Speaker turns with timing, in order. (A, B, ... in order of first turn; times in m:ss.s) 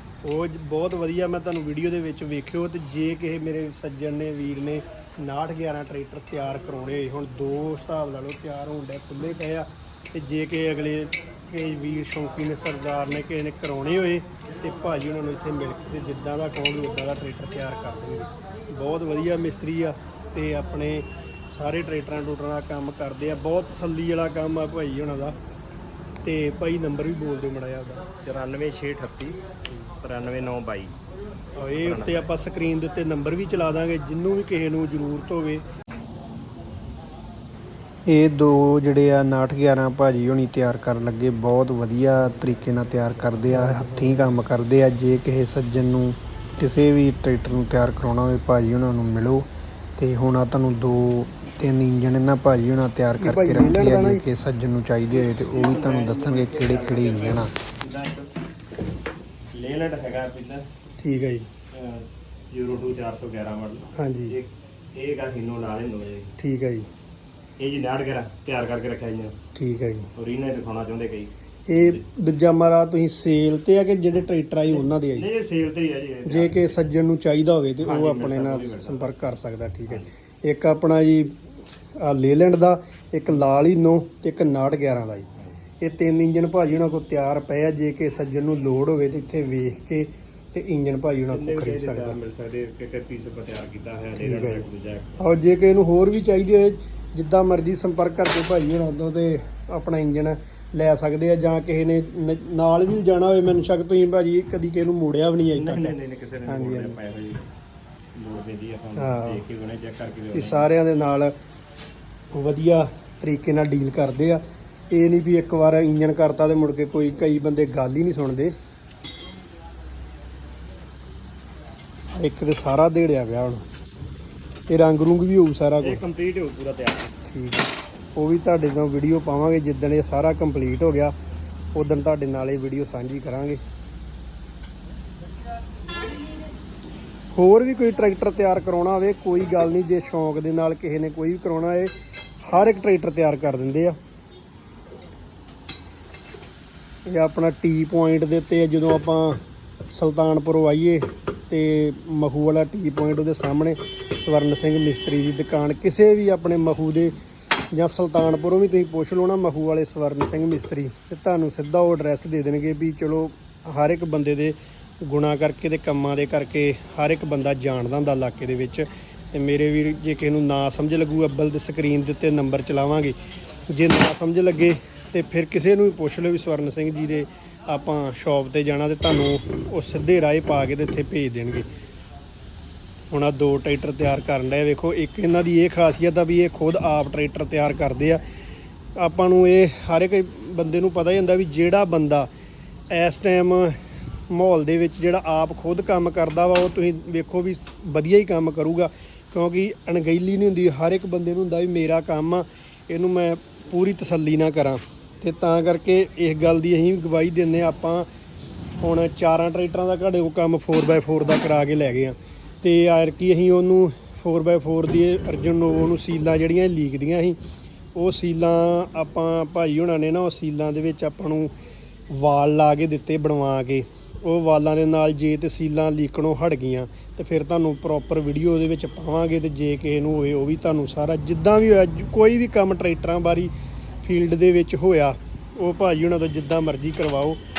0:00.2-0:25.4 A
0:26.2-0:28.0 A
0:28.2-0:29.4 B
0:30.0-0:31.0 B
0:31.6-0:35.6 A
0:31.8-0:32.3 B
0:38.1-0:46.2 C
0:43.5-0:44.4 A
0:46.6-0:47.3 A
0:47.3-0:57.5 C
0:53.2-0:54.2 A
0:55.1-0:58.3 B
0:59.5-1:00.6 B
1:01.0-1:01.5 A
1:01.7-1:06.3 B
1:04.0-1:04.4 A
1:06.4-1:06.9 A
1:07.6-1:09.3 B
1:09.6-1:10.1 A
1:10.2-1:12.0 B
1:11.7-1:15.3 A
1:14.7-1:16.8 B
1:16.2-1:21.5 A
1:17.8-1:19.3 B
1:22.0-1:25.3 A
1:25.8-1:32.2 A
1:31.3-1:35.2 B
1:34.2-1:34.7 A
1:35.2-1:47.0 A
1:45.5-1:47.5 B
1:48.2-1:50.7 B
1:49.0-1:49.4 A
1:50.3-1:51.3 A
1:52.4-1:58.5 A
2:02.2-2:03.6 A
2:04.7-2:06.0 A
2:05.8-2:07.1 B
2:07.3-2:11.1 A
2:11.7-2:13.6 A
2:17.3-2:24.0 A
2:27.1-2:29.4 A
2:29.9-2:37.2 A
2:37.7-2:53.2 A
2:53.7-3:01.7 A
3:03.1-3:08.2 A
3:09.0-3:12.3 A
3:12.9-3:13.8 A
3:14.3-3:28.1 A
3:28.8-3:37.4 A
3:38.0-3:41.5 A
3:42.1-3:53.5 A
3:54.0-3:57.4 A